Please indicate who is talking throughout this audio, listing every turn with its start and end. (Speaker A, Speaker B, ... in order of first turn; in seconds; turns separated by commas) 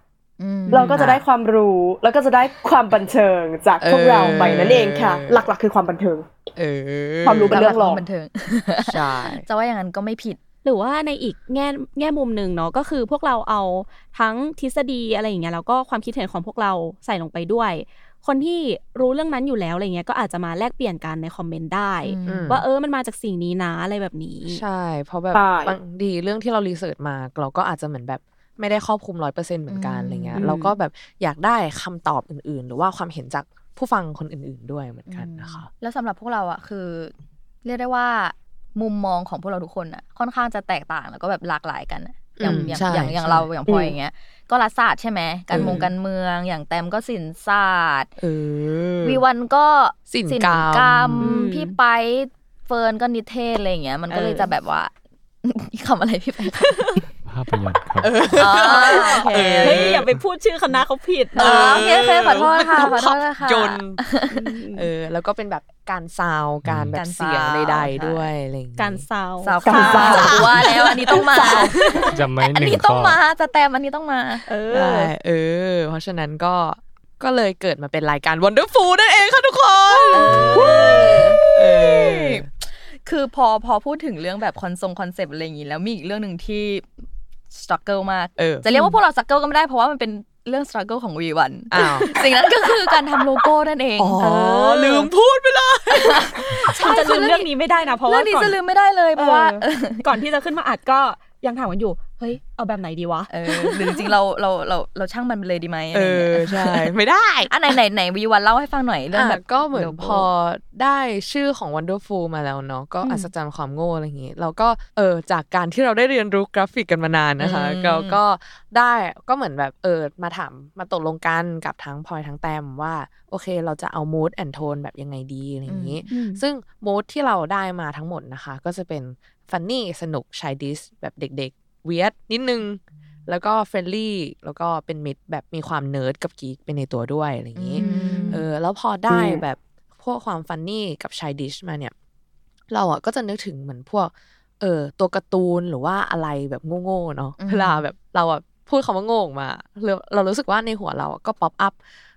Speaker A: 0.4-1.0, Speaker B: 0.7-6.3, Speaker C: 0.9-1.2, Speaker C: 3.8-5.5, Speaker C: 6.6-7.7, Speaker B: 7.2-8.1, Speaker A: 7.5-10.4, Speaker C: 8.8-9.5, Speaker D: 10.7-24.6, Speaker A: 22.0-22.6, Speaker C: 22.2-22.7, Speaker C: 24.4-35.7, Speaker B: 25.3-25.8, Speaker A: 29.7-30.5, Speaker D: 30.4-30.8, Speaker A: 35.1-48.1, Speaker C: 42.4-43.5, Speaker B: 43.7-43.9, Speaker C: 45.5-45.9, Speaker D: 45.5-45.9, Speaker C: 48.2-49.2, Speaker A: 49.0-54.9, Speaker C: 50.1-51.4, Speaker D: 51.2-51.8, Speaker C: 54.1-54.5, Speaker A: 55.4-57.0, Speaker E: 57.2-58.1, Speaker C: 58.0-60.1, Speaker A: 58.3-60.0, Speaker D: 58.6-61.9, Speaker A: 61.4-64.3, Speaker C: 61.4-64.2, Speaker D: 64.3-64.9, Speaker C: 64.8-69.1, Speaker E: 66.6-67.0, Speaker A: 67.0-68.3, Speaker D: 68.8-70.4, Speaker A: 69.4-71.8, Speaker B: 69.7-72.0, Speaker C: 69.9-72.1, Speaker E: 72.1-73.2, Speaker A: 72.3-74.5, Speaker D: 74.5-75.1, Speaker C: 74.7-82.5, Speaker A: 80.1-86.9, Speaker D: 80.1-81.4, Speaker A: 87.5-94.2, Speaker C: 88.4-88.7, Speaker C: 91.7-92.1, Speaker C: 94.0-96.8, Speaker D: 94.2-95.1, Speaker A: 95.9-97.5, Speaker D: 96.6-98.6, Speaker A: 98.0-100.0, Speaker D: 99.1-104.1, Speaker A: 103.3-107.0, Speaker C: 105.9-107.8, Speaker A: 107.5-110.3, Speaker C: 109.1-141.9, Speaker D: 113.0-113.3, Speaker A: 117.4-118.2, Speaker A: 125.7-126.1, Speaker D: 126.1-126.4, Speaker A: 137.5-138.5, Speaker D: 137.8-138.4, Speaker B: 139.1-139.4, Speaker C: 142.7-151.8, Speaker A: 147.4-147.9